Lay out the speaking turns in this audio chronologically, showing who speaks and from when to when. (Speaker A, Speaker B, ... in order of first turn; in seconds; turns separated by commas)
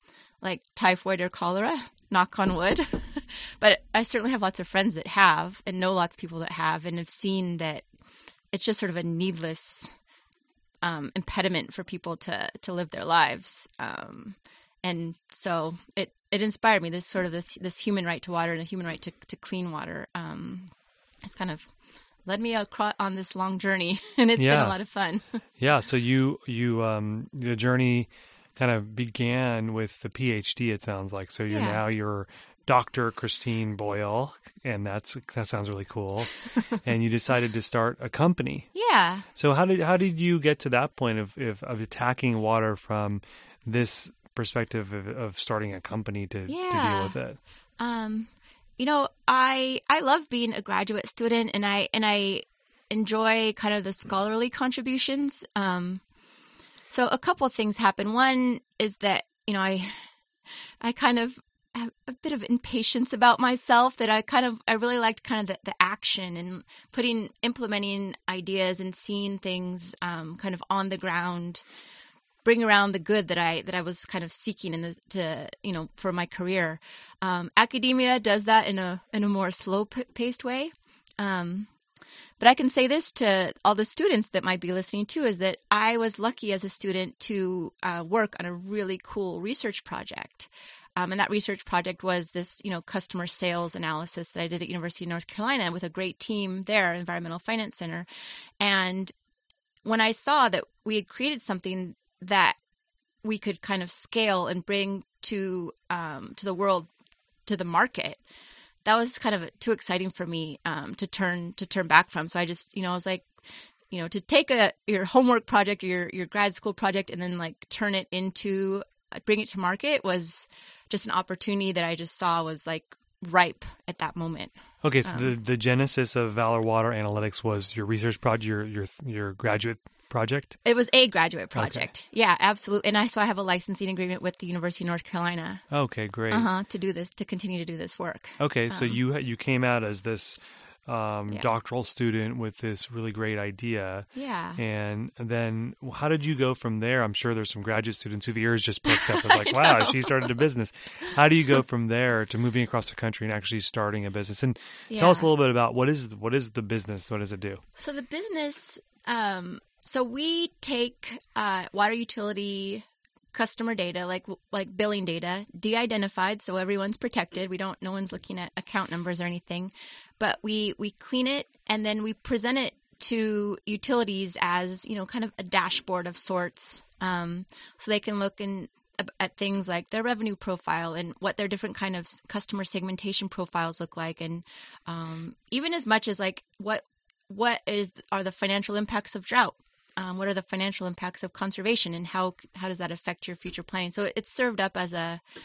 Speaker A: 0.4-7.9, Speaker A: 8.5-9.9, Speaker A: 10.8-20.7, Speaker A: 21.2-21.7, Speaker A: 22.3-25.3, Speaker B: 24.4-24.8, Speaker B: 25.6-38.7, Speaker A: 31.5-31.8, Speaker A: 38.7-39.3, Speaker B: 39.4-47.4, Speaker A: 46.5-47.2, Speaker A: 47.8-56.0, Speaker A: 56.9-60.0, Speaker A: 60.8-71.6, Speaker A: 72.5-81.7, Speaker A: 82.4-98.1, Speaker A: 98.6-99.1, Speaker A: 99.8-102.6, Speaker A: 103.2-106.9, Speaker A: 107.5-108.2, Speaker A: 108.8-113.3, Speaker A: 113.9-124.5, Speaker B: 124.8-130.6, Speaker A: 125.0-125.3, Speaker A: 130.6-135.6, Speaker B: 131.6-131.9, Speaker B: 135.7-136.5, Speaker A: 136.3-139.0, Speaker B: 138.4-157.6, Speaker A: 144.2-144.6, Speaker A: 148.9-150.4, Speaker A: 154.9-155.3, Speaker A: 157.8-195.2